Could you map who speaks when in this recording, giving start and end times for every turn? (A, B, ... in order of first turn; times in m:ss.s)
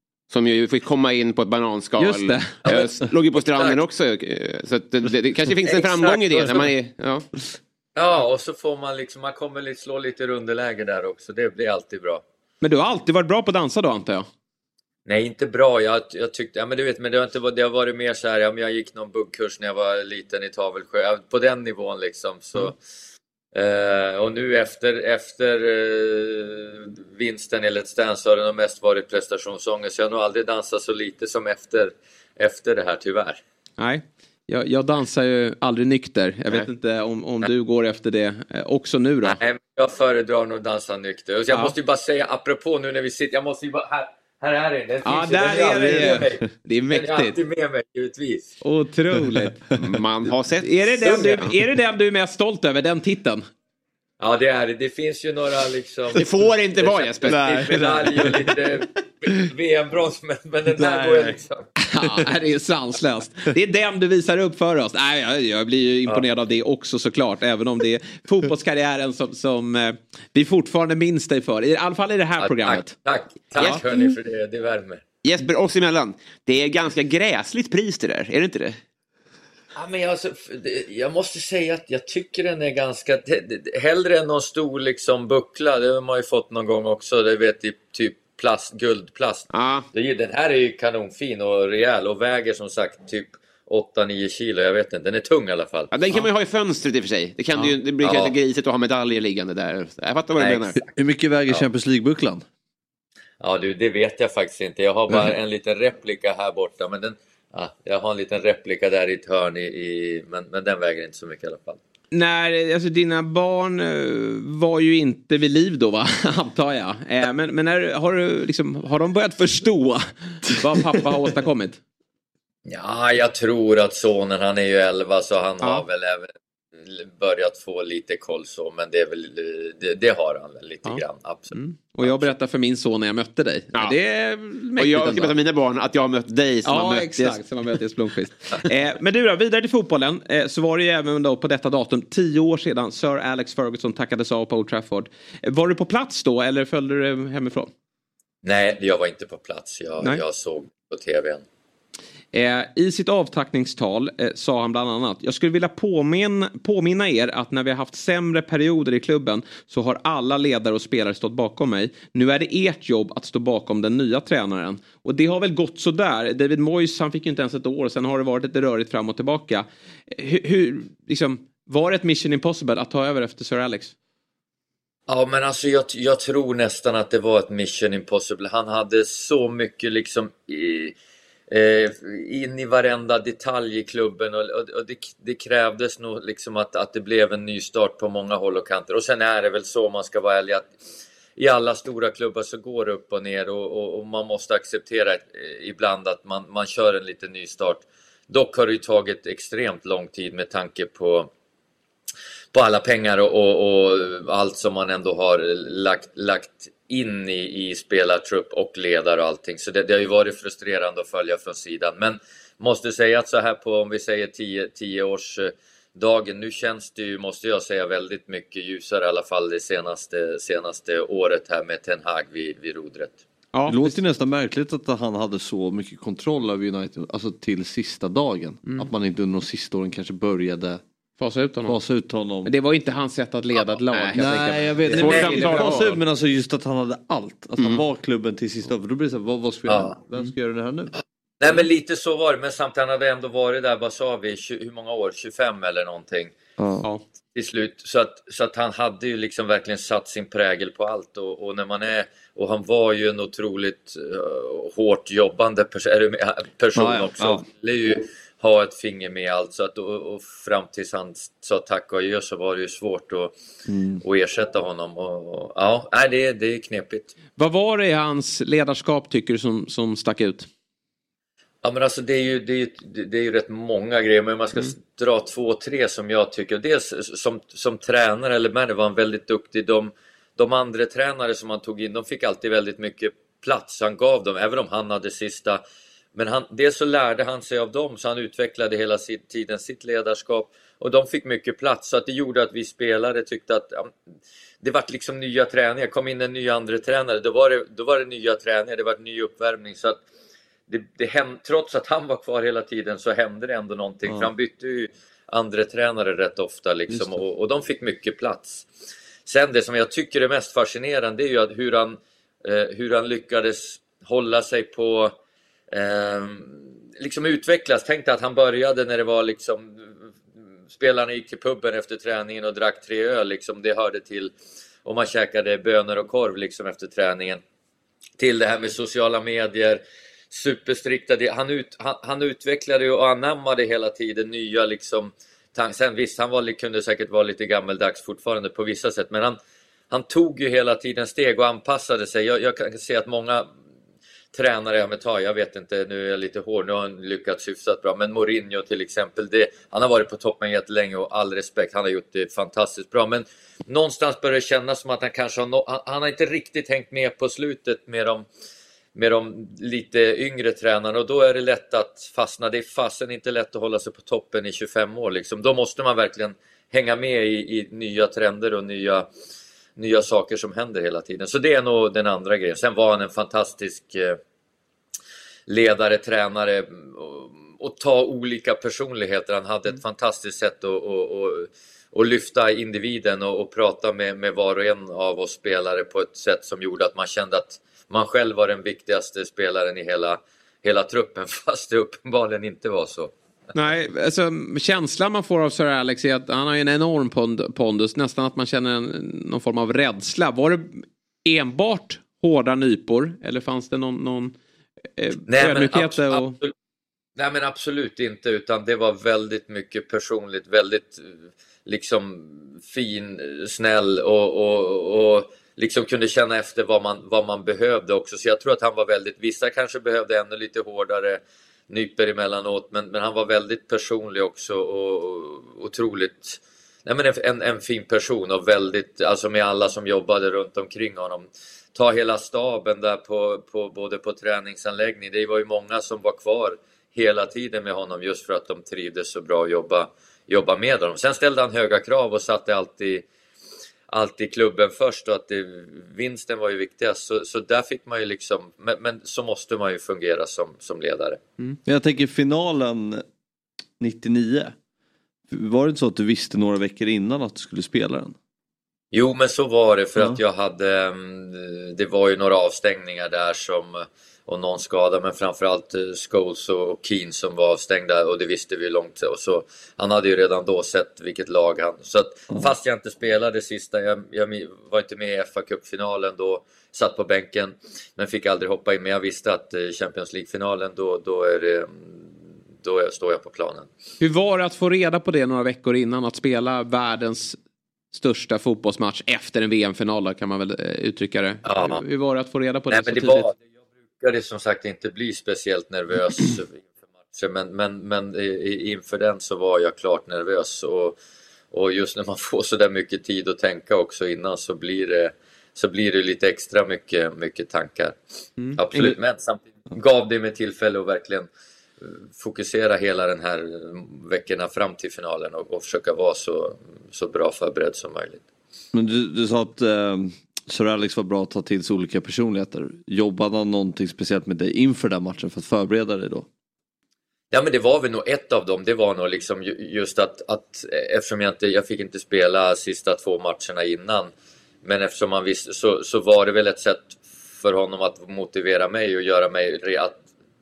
0:00.3-0:07.2 A
0:02.0-0:02.6 B
0:02.6-0:03.8 C
0:05.6-0:06.7 C
0:08.0-0:12.2 C
0:12.6-0:14.3 B
0:15.1-0:22.8 C
0:23.5-0:33.4 C
0:33.8-0:39.4 B
0:39.2-0:48.6 C
0:45.0-0:47.4 B
0:48.6-0:49.6 B
0:49.8-0:51.5 A
0:50.6-0:53.4 B
0:54.2-1:01.7 C
0:56.2-0:57.6 A
0:57.2-0:58.6 D
1:00.7-1:01.4 D
1:01.8-1:13.0 B
1:12.4-1:15.0 C
1:13.6-1:14.1 A
1:15.2-1:18.8 A
1:19.8-1:35.9 C
1:29.5-1:29.9 A
1:35.9-1:40.8 A
1:38.0-1:38.4 C
1:40.4-1:40.9 C
1:40.9-1:42.4 D
1:43.4-1:51.8 C
1:52.1-2:01.8 B
2:02.7-2:06.3 C
2:06.8-2:12.3 C
2:11.5-2:15.3 B
2:14.8-2:17.4 A
2:16.6-2:27.7 B
2:28.4-2:31.4 C
2:32.3-2:53.9 B
2:55.1-3:01.0 C
3:01.5-3:10.7 C
3:11.4-3:21.3 C
3:22.5-3:43.2 C
3:43.5-3:44.0 B
3:43.7-3:50.8 D
3:48.6-3:48.9 B
3:51.2-3:51.8 B
3:51.7-3:52.5 D
3:52.4-3:55.9 B
3:53.9-3:54.2 A
3:54.2-4:00.9 D
3:54.9-3:56.0 A
3:59.7-4:00.0 C
4:01.4-4:06.4 C
4:06.6-4:06.9 D
4:07.4-4:23.4 C
4:16.8-4:17.4 D
4:23.7-4:24.0 D
4:24.0-4:27.1 C
4:27.4-4:30.5 B
4:31.6-4:45.6 C
4:46.2-4:53.9 C
4:54.6-5:00.0 C
5:00.7-5:08.7 C
5:06.9-5:07.2 D
5:09.3-5:15.2 C
5:15.7-5:20.0 C
5:20.7-5:24.3 C
5:24.8-5:27.4 C
5:28.2-5:39.4 C
5:39.9-5:43.5 C
5:44.3-5:58.3 C
5:59.0-6:09.1 C
6:09.8-6:14.2 C
6:15.5-6:33.1 C
6:33.6-6:44.4 B
6:45.0-6:46.4 B
6:45.3-6:46.5 C
6:47.2-7:23.1 C
7:23.9-7:31.2 C
7:31.6-7:33.0 D
7:33.8-7:34.6 D
7:35.3-7:38.2 D
7:38.9-8:02.1 C
8:02.6-8:03.7 C
8:04.0-8:07.4 B
8:07.9-8:13.3 B
8:11.4-8:11.8 C
8:12.7-8:13.4 C
8:14.0-8:21.0 C
8:21.5-8:28.0 C
8:28.5-8:31.3 C
8:31.8-8:38.2 C
8:38.7-8:46.3 D
8:47.3-8:54.1 C
8:54.6-9:00.0 C